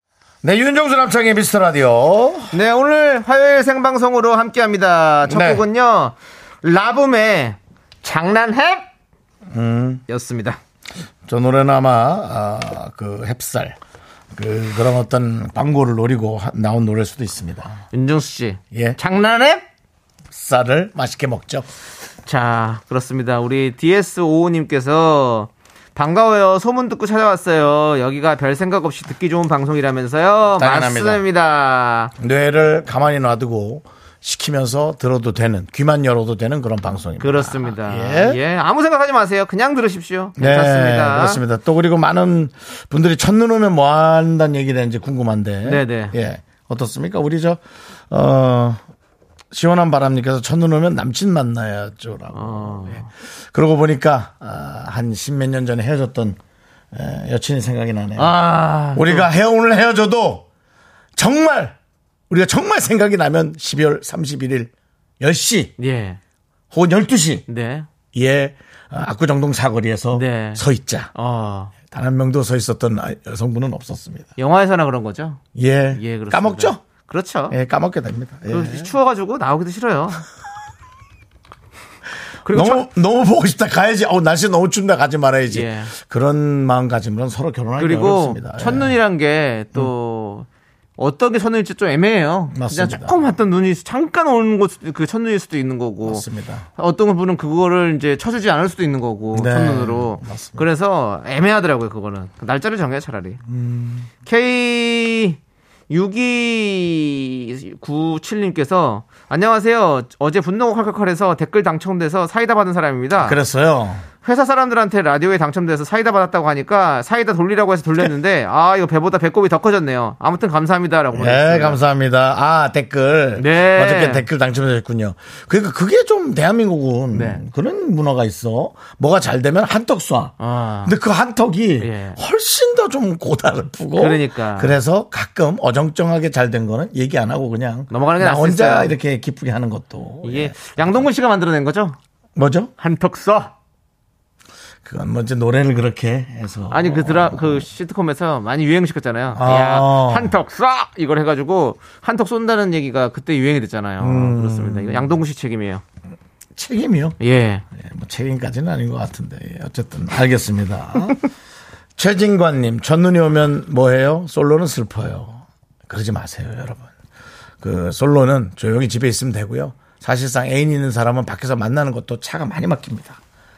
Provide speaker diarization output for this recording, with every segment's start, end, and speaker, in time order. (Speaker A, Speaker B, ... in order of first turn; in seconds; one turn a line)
Speaker A: 0.4-2.6
Speaker B: 2.5-8.8
Speaker A: 5.2-5.6
Speaker A: 9.5-10.0
Speaker B: 10.1-10.6
Speaker A: 11.2-13.8
Speaker A: 14.3-17.8
Speaker B: 17.9-19.6
Speaker A: 18.7-19.0
Speaker A: 20.3-21.7
Speaker B: 22.2-32.1
Speaker A: 30.6-31.2
Speaker A: 32.2-38.4
Speaker B: 37.2-41.4
Speaker A: 40.4-48.8
Speaker B: 45.6-46.1
Speaker A: 49.5-56.4
Speaker B: 52.3-53.1
Speaker A: 56.9-58.4
Speaker B: 58.2-59.3
Speaker A: 58.9-60.5
Speaker A: 61.1-61.8
Speaker A: 62.3-65.7
Speaker B: 65.8-66.2
Speaker A: 66.7-67.5
Speaker B: 67.5-67.9
Speaker A: 68.1-71.1
Speaker B: 70.1-71.7
Speaker A: 71.8-74.3
Speaker B: 74.4-75.4
Speaker A: 75.5-76.8
Speaker B: 75.9-77.5
Speaker A: 77.5-78.9
Speaker B: 78.5-80.2
Speaker B: 82.4-82.8
Speaker A: 82.5-88.9
Speaker B: 85.5-85.9
Speaker B: 87.8-90.5
Speaker B: 91.0-96.2
Speaker A: 92.5-93.2
Speaker A: 96.0-96.7
Speaker B: 96.8-103.4
Speaker A: 99.3-100.6
Speaker A: 103.5-104.1
Speaker B: 104.2-105.4
Speaker B: 105.9-113.4
Speaker A: 113.2-114.0
Speaker B: 114.2-121.8
Speaker A: 121.1-141.1
Speaker B: 123.4-124.2
Speaker B: 127.1-127.4
Speaker B: 130.4-130.9
Speaker B: 131.8-132.2
Speaker B: 134.0-134.8
Speaker B: 137.9-138.9
Speaker B: 140.2-142.0
Speaker A: 142.3-142.7
Speaker B: 142.8-143.5
Speaker A: 144.8-147.7
Speaker B: 146.7-155.8
Speaker A: 149.3-150.3
Speaker A: 154.0-155.2
Speaker A: 156.6-157.2
Speaker B: 157.2-157.6
Speaker A: 157.7-161.2
Speaker A: 162.0-166.9
Speaker A: 167.6-173.2